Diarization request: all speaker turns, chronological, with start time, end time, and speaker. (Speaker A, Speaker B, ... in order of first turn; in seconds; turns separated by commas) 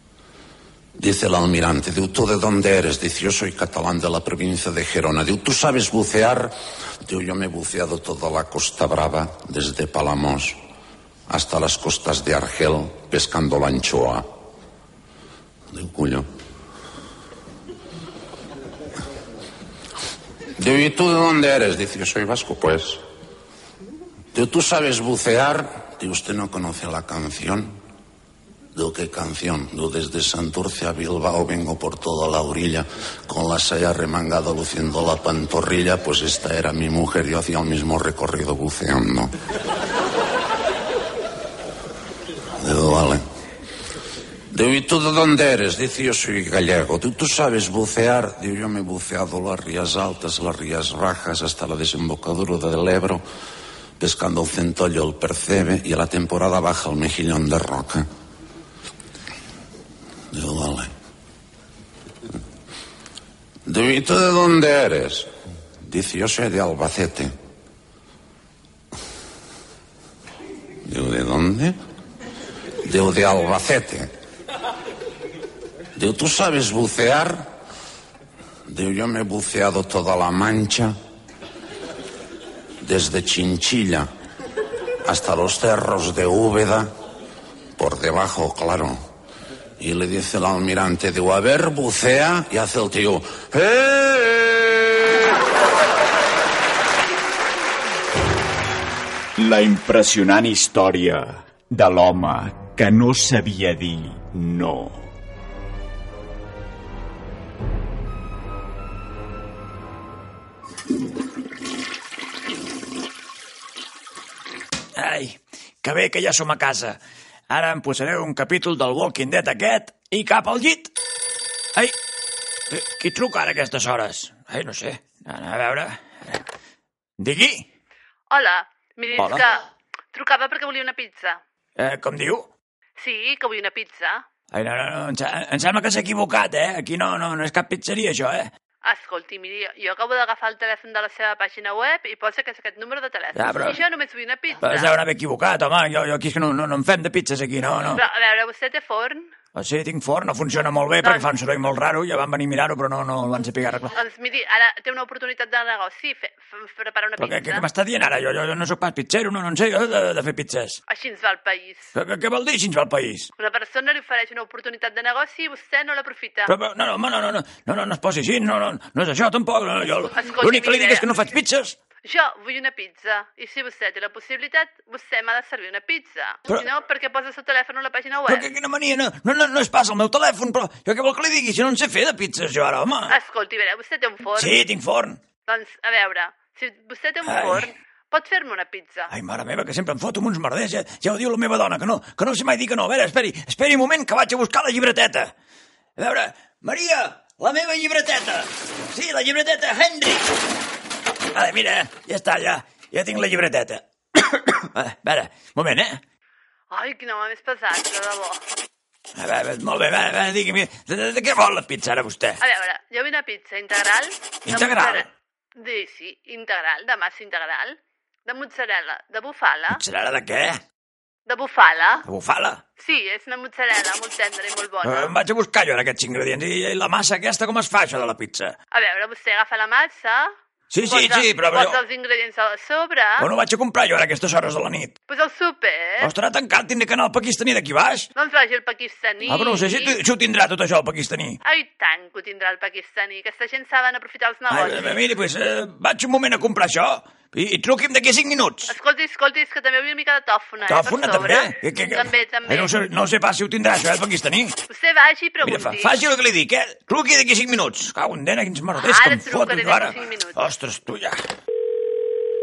Speaker A: 1.0-10.6, Speaker A: 11.3-14.3, Speaker A: 15.7-16.3, Speaker A: 20.6-23.0, Speaker A: 24.3-27.7, Speaker A: 28.7-39.3, Speaker A: 42.6-43.2, Speaker A: 44.5-53.2, Speaker A: 54.0-58.1, Speaker A: 60.3-60.9, Speaker A: 63.7-65.3, Speaker A: 65.8-67.3, Speaker A: 70.8-71.8, Speaker A: 72.8-74.1, Speaker A: 76.0-77.5, Speaker A: 78.7-80.9, Speaker A: 82.8-84.1, Speaker A: 85.0-86.9, Speaker A: 87.8-89.0, Speaker A: 89.8-95.1, Speaker B: 99.4-105.1, Speaker C: 115.0-117.0, Speaker C: 117.5-120.9, Speaker C: 122.7-126.4, Speaker C: 127.2-127.7, Speaker D: 128.3-131.4, Speaker C: 129.2-129.5, Speaker C: 131.8-132.5, Speaker D: 133.0-134.2, Speaker C: 134.5-138.5, Speaker D: 138.8-144.9, Speaker C: 143.4-143.8, Speaker C: 144.6-148.0, Speaker D: 147.9-149.3, Speaker C: 149.6-153.9, Speaker D: 151.0-151.3, Speaker D: 153.9-157.7, Speaker C: 157.2-160.8, Speaker D: 160.9-161.9, Speaker C: 161.9-163.3, Speaker D: 163.4-166.6, Speaker C: 166.5-171.8, Speaker D: 170.1-171.1, Speaker D: 172.0-178.5, Speaker C: 178.3-183.1, Speaker D: 183.1-184.6, Speaker C: 184.4-185.2, Speaker D: 185.4-189.1, Speaker C: 187.2-187.6, Speaker C: 189.1-195.3, Speaker C: 196.0-200.3, Speaker C: 201.3-206.0, Speaker D: 206.7-208.4, Speaker C: 209.2-212.4, Speaker D: 212.4-219.8, Speaker C: 214.4-215.1, Speaker C: 219.7-220.6, Speaker D: 221.3-222.1, Speaker C: 222.1-222.6, Speaker D: 222.8-225.1, Speaker C: 224.8-228.6, Speaker D: 228.7-230.3, Speaker C: 230.7-231.8, Speaker D: 230.8-233.3, Speaker C: 233.2-235.0, Speaker D: 235.1-236.1, Speaker C: 236.0-238.1, Speaker D: 238.2-240.0, Speaker C: 239.3-241.4, Speaker D: 241.4-245.0, Speaker C: 244.5-248.7, Speaker D: 248.7-252.8, Speaker C: 250.7-254.6, Speaker D: 254.7-256.0, Speaker C: 255.4-261.2, Speaker D: 258.8-260.4